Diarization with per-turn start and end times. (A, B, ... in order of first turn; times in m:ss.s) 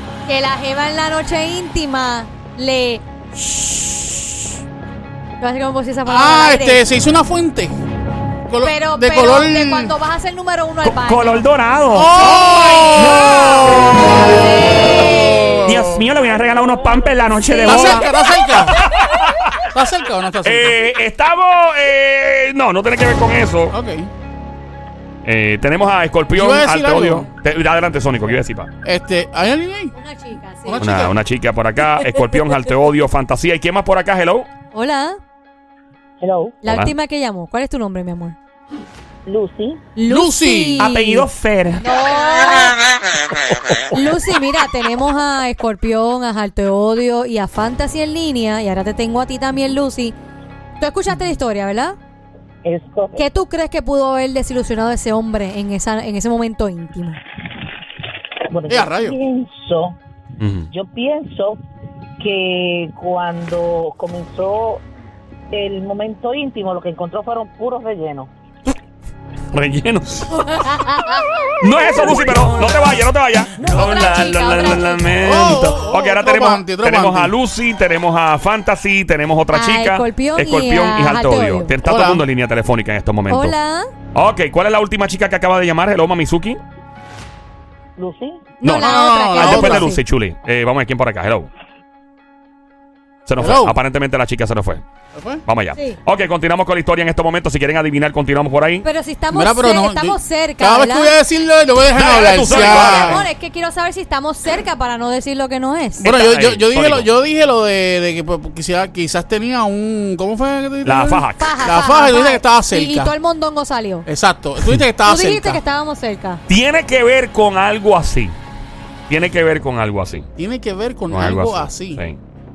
0:00.3-0:03.0 A
0:05.4-0:06.8 A
0:06.1-0:07.8 B
0:08.5-0:09.9 B
0:08.6-0:11.5 A
0:10.8-0:12.6 C
0:11.9-0:16.0 B
0:12.2-0:15.6 A
0:12.6-0:13.8 D
0:15.7-0:18.1 C
0:17.4-0:18.3 A
0:17.6-0:18.8 B
0:18.7-0:19.7 D
0:19.7-0:20.8 B
0:20.4-0:23.8 D
0:23.7-0:24.1 B
0:25.2-0:28.7 D
0:26.3-0:27.3 B
0:28.8-0:29.9 B
0:29.9-0:30.8 A
0:30.7-0:31.2 B
0:30.8-0:34.5 D
0:31.9-0:32.7 A
0:34.7-0:35.2 A
0:36.2-0:36.6 E
0:36.6-0:38.4 A
0:36.6-0:36.9 D
0:39.3-0:39.9 E
0:40.0-0:41.3 A
0:40.0-0:40.9 B
0:40.8-0:41.9 C
0:41.8-0:42.8 A
0:43.9-0:50.2 A
0:50.8-0:52.0 A
0:52.6-0:53.2 E
0:53.2-0:57.2 A
0:58.5-1:00.0 E
0:58.7-0:59.2 B
1:00.4-1:00.7 D
1:00.7-1:01.6 E
1:02.2-1:04.8 E
1:05.5-1:08.3 E
1:09.5-1:10.7 D
1:10.3-1:11.5 A
1:11.6-1:23.6 D
1:13.6-1:13.9 E
1:13.6-1:15.1 A
1:15.2-1:17.3 B
1:19.5-1:21.7 A
1:21.8-1:22.2 B
1:23.3-1:23.9 A
1:24.1-1:26.6 D
1:28.0-1:28.5 E
1:28.6-1:30.0 A
1:28.6-1:31.5 D
1:28.7-1:30.0 B
1:33.3-1:34.8 D
1:33.4-1:33.8 B
1:35.1-1:35.4 B
1:35.5-1:38.9 D
1:38.8-1:41.2 A
1:39.3-1:43.2 B
1:41.9-1:43.3 D
1:42.4-1:46.1 A
1:46.0-1:53.1 B
1:46.0-1:47.1 D
1:50.8-1:51.6 D
1:51.4-1:54.1 A
1:54.1-1:55.6 B
1:55.0-1:56.4 A
1:56.5-1:58.4 D
1:59.1-2:00.3 D
2:00.4-2:02.0 B
2:01.1-2:02.2 D